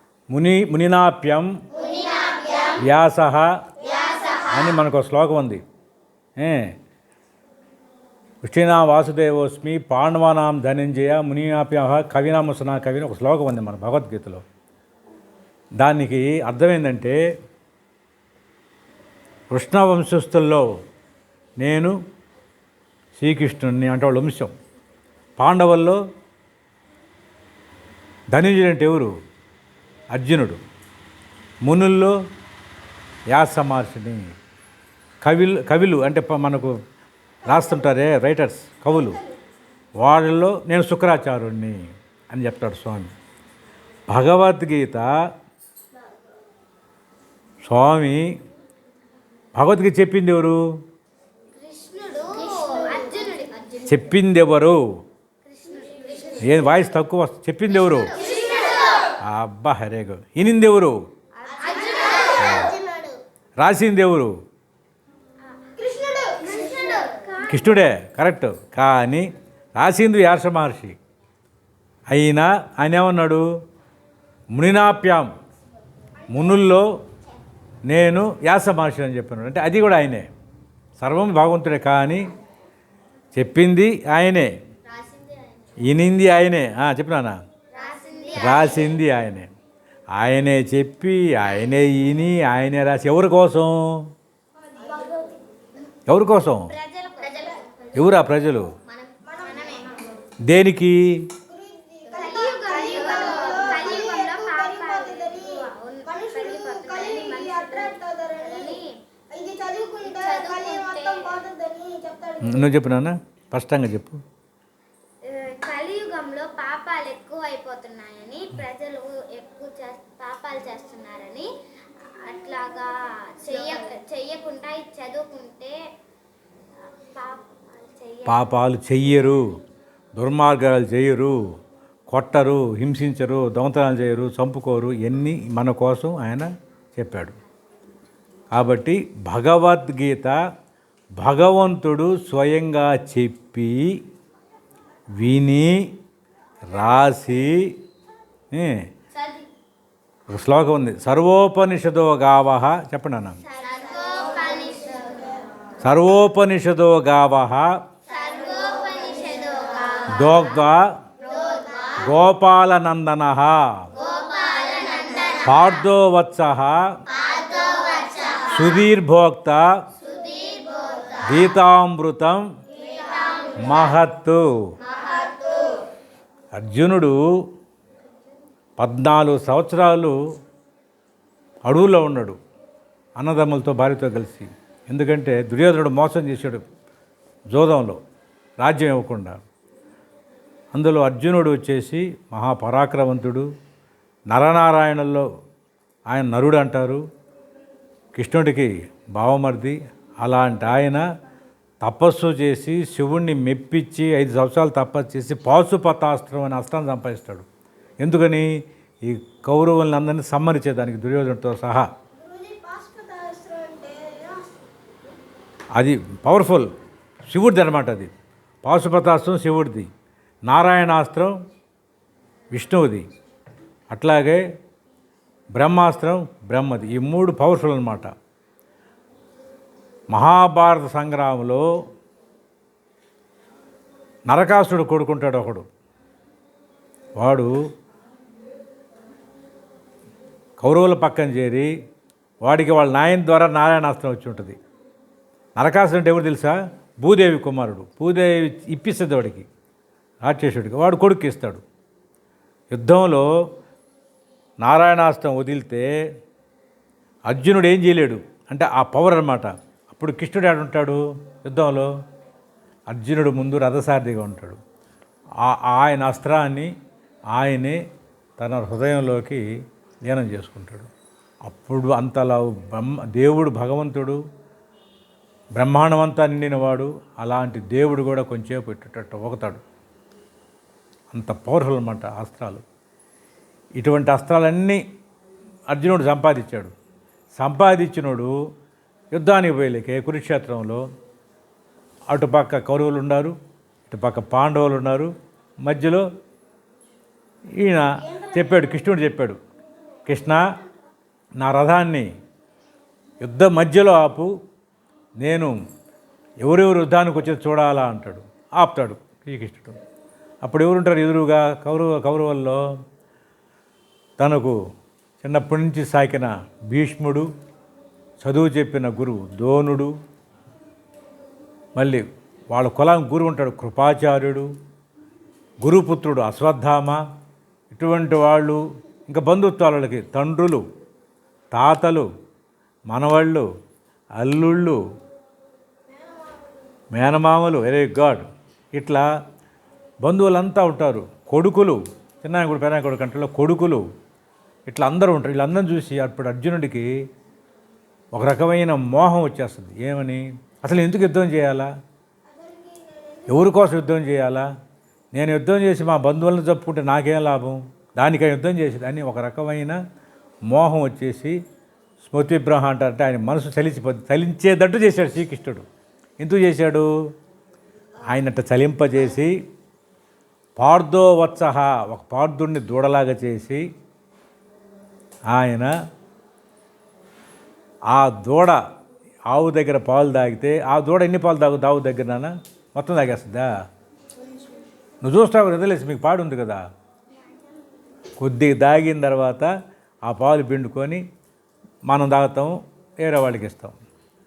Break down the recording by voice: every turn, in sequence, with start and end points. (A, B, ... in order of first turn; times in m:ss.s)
0:00.3-0:01.6 A
0:01.7-0:02.8 B
0:02.8-0:03.5 A
0:03.8-0:04.8 B
0:04.5-0:05.6 A
0:06.4-0:06.7 A
0:08.4-0:14.4 A
0:15.8-0:17.2 A
0:19.5-0:20.7 A
0:21.6-0:22.0 A
0:23.2-0:24.5 A
0:25.4-0:26.0 A
0:28.3-0:29.1 A
0:30.1-0:30.6 A
0:31.6-0:32.2 A
0:33.3-0:34.3 A
0:35.2-0:36.8 A
0:37.4-0:39.2 A
0:40.0-0:41.8 A
0:42.3-0:43.1 A
0:44.1-0:45.1 A
0:47.6-0:48.3 A
0:49.6-0:50.6 A
0:51.5-0:54.1 B
0:53.9-0:54.8 A
0:55.4-0:56.4 B
0:56.4-0:58.2 A
0:57.9-0:59.1 B
0:59.2-1:01.0 A
1:01.5-1:02.8 C
1:01.5-1:03.1 B
1:02.4-1:02.7 A
1:03.6-1:04.3 A
1:05.8-1:07.1 C
1:06.4-1:07.7 B
1:07.5-1:11.0 A
1:12.1-1:13.5 A
1:14.5-1:15.3 A
1:16.3-1:16.9 A
1:17.9-1:20.3 A
1:21.0-1:22.3 A
1:23.4-1:24.5 A
1:24.9-1:25.8 B
1:25.8-1:27.4 A
1:27.7-1:29.0 B
1:28.4-1:29.5 A
1:30.2-1:34.1 A
1:34.8-1:35.4 C
1:36.1-1:36.7 A
1:36.7-1:38.1 B
1:38.0-1:38.7 A
1:38.9-1:40.1 B
1:39.3-1:39.9 C
1:40.5-1:41.3 A
1:41.5-1:48.8 C
1:42.1-1:48.9 B
1:49.3-1:52.8 C
1:50.0-1:51.4 B
1:52.4-1:54.2 A
1:55.2-2:01.5 B
2:02.0-2:05.8 B
2:07.1-2:08.5 B
2:08.3-2:09.6 A
2:10.2-2:11.4 A
2:12.1-2:17.4 A
2:18.5-2:20.4 A
2:21.2-2:24.0 A
2:25.2-2:25.9 A
2:26.7-2:27.8 A
2:28.5-2:28.8 A
2:29.2-2:29.4 B
2:30.3-2:33.4 A
2:33.4-2:35.4 B
2:35.8-2:37.7 A
2:38.1-2:40.6 B
2:40.1-2:40.9 A
2:41.2-2:42.1 B
2:42.0-2:43.9 A
2:43.9-2:45.8 B
2:45.4-2:46.9 A
2:47.1-2:48.8 B
2:48.5-2:49.7 A
2:50.0-2:51.5 B
2:51.2-2:52.4 A
2:52.8-2:54.0 B
2:53.6-2:54.5 A
2:54.8-2:55.8 B
2:56.6-2:57.2 A
2:58.8-3:00.2 A
3:01.6-3:02.4 A
3:03.2-3:06.6 A
3:07.5-3:08.0 A
3:08.6-3:09.4 A
3:10.7-3:13.5 A
3:14.3-3:15.3 A
3:16.1-3:17.0 A
3:18.2-3:21.1 A
3:21.8-3:27.5 A
3:28.0-3:28.5 A
3:29.0-3:31.9 A
3:32.2-3:34.7 C
3:35.8-3:36.7 A
3:37.3-3:38.1 A
3:38.6-3:39.9 A
3:40.5-3:41.4 A
3:42.5-3:43.0 A
3:43.9-3:44.4 A
3:45.5-3:48.1 A
3:50.1-3:51.6 A
3:54.3-3:55.7 A
3:57.2-3:57.6 A
4:00.6-4:01.7 A
4:02.4-4:04.6 A
4:05.6-4:09.5 A
4:10.2-4:11.6 A
4:12.7-4:13.3 A
4:14.6-4:15.9 A
4:17.3-4:21.9 A
4:22.9-4:24.6 A
4:25.4-4:26.7 A
4:27.3-4:27.8 A
4:28.4-4:29.4 A
4:30.0-4:30.9 A
4:31.4-4:34.2 A
4:35.6-4:39.6 A
4:41.1-4:42.6 A
4:43.8-4:44.8 A
4:45.7-4:46.7 A
4:47.4-4:48.4 A
4:49.1-4:50.8 A
4:52.1-4:53.4 A
4:53.9-4:56.1 A
4:57.6-4:59.4 A
5:00.1-5:00.5 A
5:01.4-5:02.1 A
5:03.2-5:04.3 A
5:05.2-5:05.6 A
5:06.4-5:09.8 A
5:10.4-5:12.6 A
5:14.2-5:14.6 A
5:15.2-5:17.3 A
5:18.2-5:19.9 A
5:21.8-5:24.5 A
5:25.6-5:27.0 A
5:27.7-5:30.6 A
5:31.5-5:32.1 A
5:32.9-5:33.5 A
5:34.2-5:34.8 A
5:35.9-5:36.4 C
5:36.9-5:39.1 A
5:40.0-5:43.8 A
5:44.7-5:46.9 A
5:48.1-5:51.7 A
5:52.3-5:53.5 C
5:53.3-5:54.5 A
5:55.1-5:59.8 A
6:00.5-6:01.4 A
6:02.0-6:05.6 A
6:06.2-6:06.9 A
6:08.0-6:09.4 A
6:10.6-6:13.6 A
6:15.3-6:15.7 A
6:17.9-6:18.6 A
6:19.3-6:23.5 A
6:25.0-6:26.6 A
6:28.2-6:29.5 A
6:30.0-6:31.0 A
6:31.9-6:33.8 A